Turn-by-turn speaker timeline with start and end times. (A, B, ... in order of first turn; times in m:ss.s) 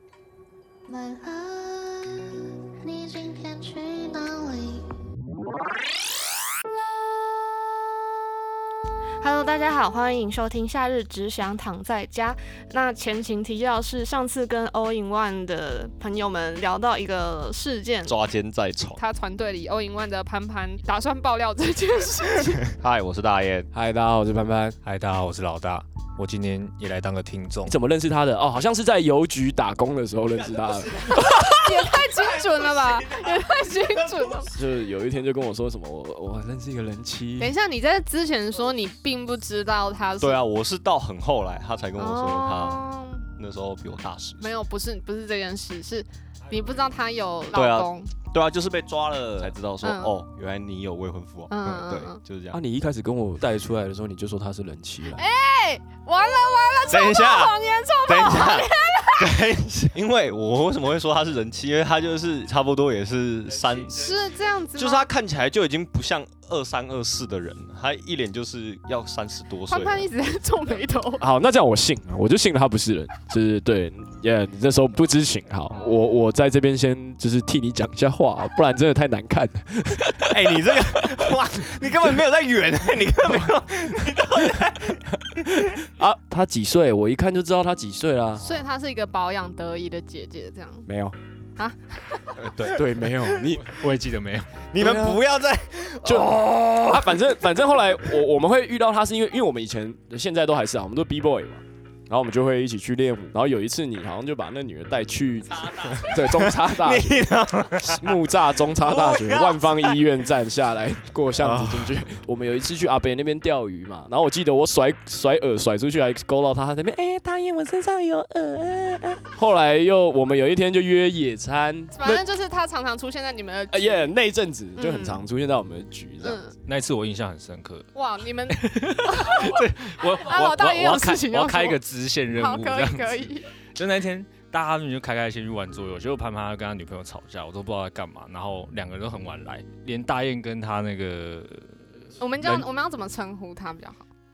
0:00.9-0:02.0 A
0:02.8-0:04.8 A
0:09.2-0:18.2 B
0:18.0-0:19.0 C
0:19.0-0:20.2 B
0:19.1-0:22.6 D
0:20.8-0:22.0 B
0:22.6-0:23.7 C
0:23.7-0:24.8 E
0:24.8-0:27.7 F
0:27.6-0:31.5 E
0:31.5-0:34.5 D
0:33.1-0:34.0 B
0:34.5-0:37.5 E
0:37.4-0:40.2 B
0:37.6-0:40.4 D
0:40.2-0:44.5 C
0:42.0-0:43.0 D
0:44.4-0:47.3 D
0:44.7-0:45.8 B
0:46.8-0:47.9 B
0:47.5-0:52.6 C
0:49.8-0:50.1 D
0:51.5-0:52.1 D
0:52.5-0:55.2 E
0:55.2-0:57.4 B
0:55.4-0:58.6 D
0:56.8-1:04.2 C
0:57.9-0:58.8 B
1:04.1-1:04.9 B
1:04.2-1:05.1 D
1:04.7-1:10.1 C
1:09.7-1:11.1 D
1:10.2-1:11.2 B
1:11.2-1:20.5 E
1:20.3-1:25.6 C
1:25.8-1:28.4 E
1:28.5-1:30.8 B
1:28.6-1:30.8 D
1:30.9-1:31.2 E
1:31.6-1:32.3 D
1:32.4-1:33.6 C
1:32.6-1:33.7 E
1:33.7-1:34.6 F
1:34.7-1:37.4 C
1:34.8-1:35.2 E
1:36.0-1:47.1 E
1:45.8-1:48.2 C
1:47.8-2:02.2 E
1:48.9-1:49.7 C
1:51.4-1:52.0 C
2:02.0-2:04.0 D
2:02.6-2:03.7 B
2:03.7-2:06.4 E
2:06.6-2:07.9 F
2:08.0-2:08.2 B
2:08.0-2:09.5 D
2:09.0-2:22.7 F
2:10.1-2:11.8 D
2:12.4-2:13.0 D
2:12.4-2:13.3 B
2:22.2-2:24.0 B
2:22.2-2:24.0 D